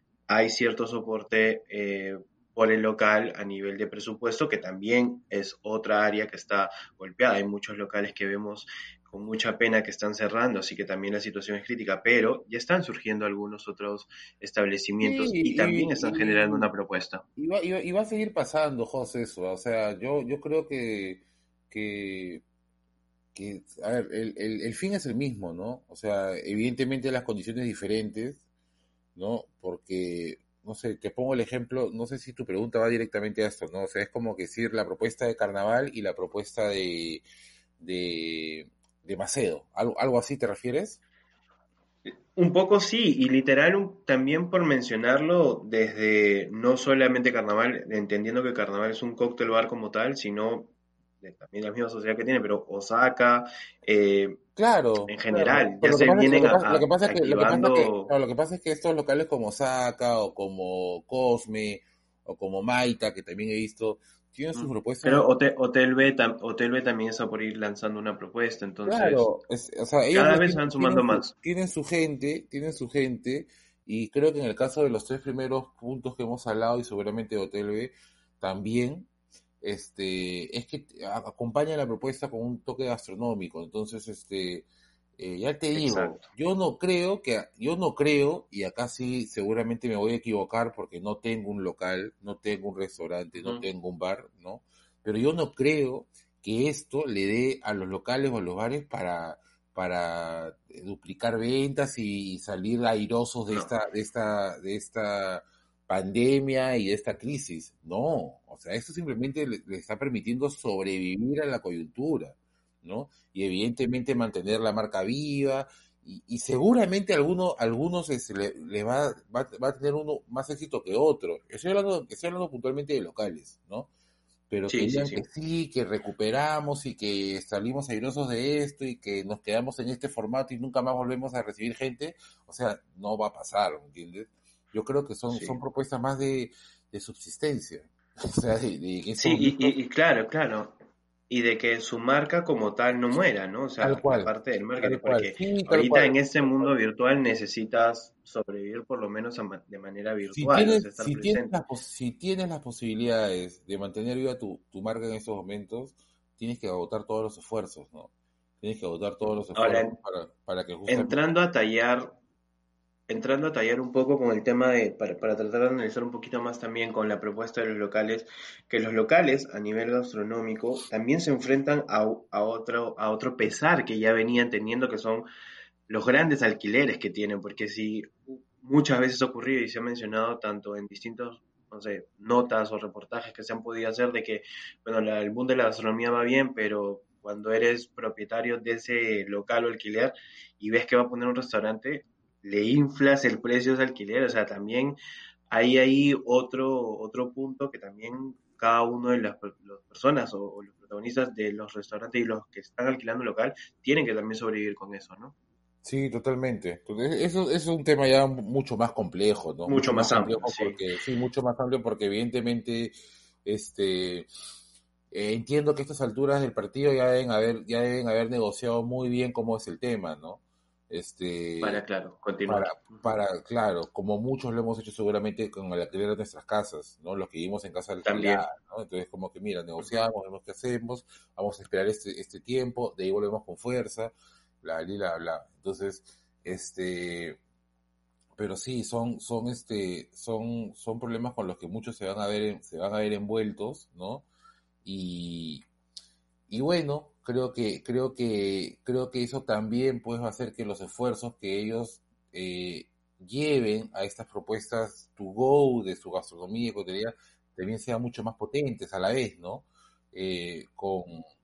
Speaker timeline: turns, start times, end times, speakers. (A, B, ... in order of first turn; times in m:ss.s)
0:00.3-0:17.2 A
0:15.0-0:16.7 B
0:17.4-0:22.4 B
0:23.3-0:28.4 B
0:29.2-0:37.2 B
0:37.8-0:41.0 B
0:42.0-0:54.4 A
0:54.6-1:05.3 B
0:55.1-0:58.1 A
1:04.5-1:09.3 A
1:08.8-1:19.1 B
1:10.1-1:11.3 A
1:19.6-2:03.9 B
1:25.8-1:26.2 A
1:33.4-1:33.6 A
2:04.5-2:19.7 B
2:04.7-2:05.2 A
2:15.3-2:15.6 A
2:19.2-2:20.8 A
2:21.3-2:31.6 A
2:23.8-2:26.7 B
2:30.3-2:41.2 B
2:39.5-2:39.9 A
2:40.9-2:42.2 A
2:43.1-2:55.3 A
2:55.9-3:15.0 A
3:15.5-3:25.3 A
3:25.8-3:32.9 B
3:29.7-3:30.8 A
3:33.4-3:34.3 B
3:35.1-3:41.8 B
3:41.6-3:43.1 A
3:42.5-3:57.4 B
3:48.0-3:48.4 A
3:58.4-4:04.2 B
4:04.8-4:05.6 B
4:06.5-4:21.3 B